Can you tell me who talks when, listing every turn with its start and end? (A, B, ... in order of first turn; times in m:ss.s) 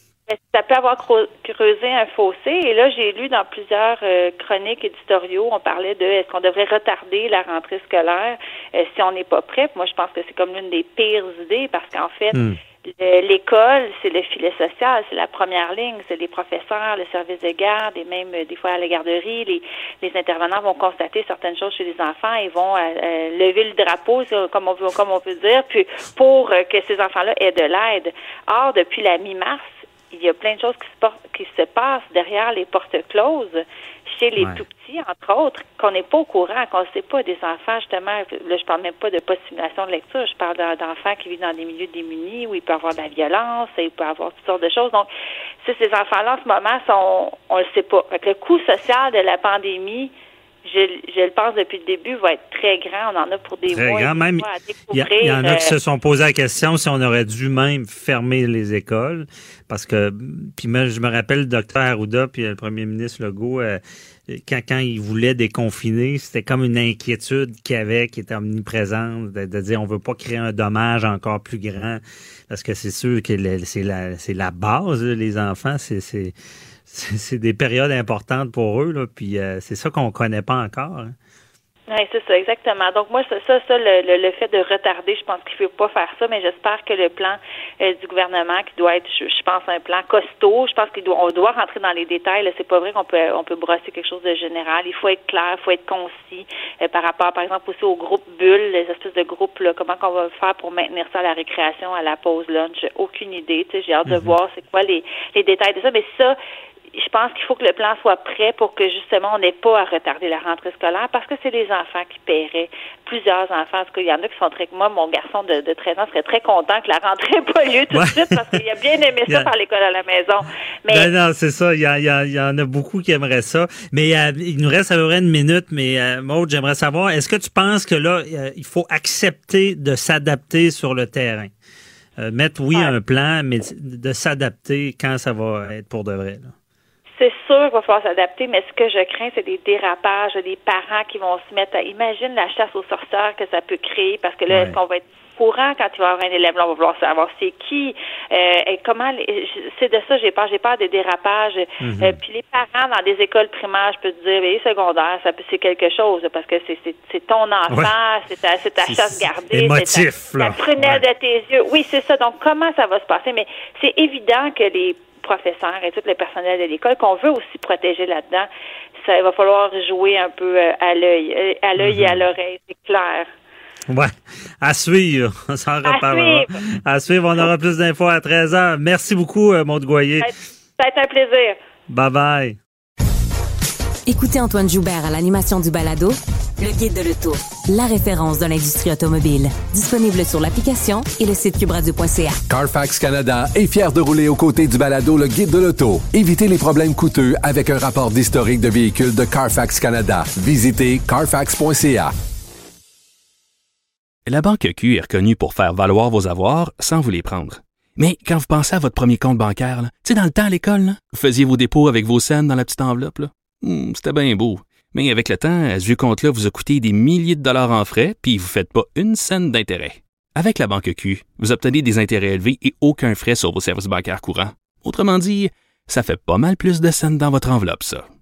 0:00.3-0:45.1 A
0:12.3-0:12.6 B
0:45.6-0:50.1 A
0:50.7-0:55.7 A
0:53.7-1:16.3 B
1:16.9-1:21.1 B
1:21.9-1:46.4 A
1:44.1-1:44.4 B
1:47.0-2:01.1 A
1:57.9-1:58.6 B
2:00.9-2:11.5 B
2:12.2-2:16.5 B
2:17.2-2:48.5 A
2:24.5-2:24.8 B
2:31.8-2:32.2 B
2:38.9-2:41.0 B
2:49.0-2:53.3 A
2:51.8-2:52.2 B
2:53.9-3:00.3 B
2:55.8-2:56.5 A
3:00.2-3:01.6 A
3:01.9-3:02.6 B
3:04.1-3:12.4 C
3:12.5-3:22.1 D
3:24.3-3:48.0 E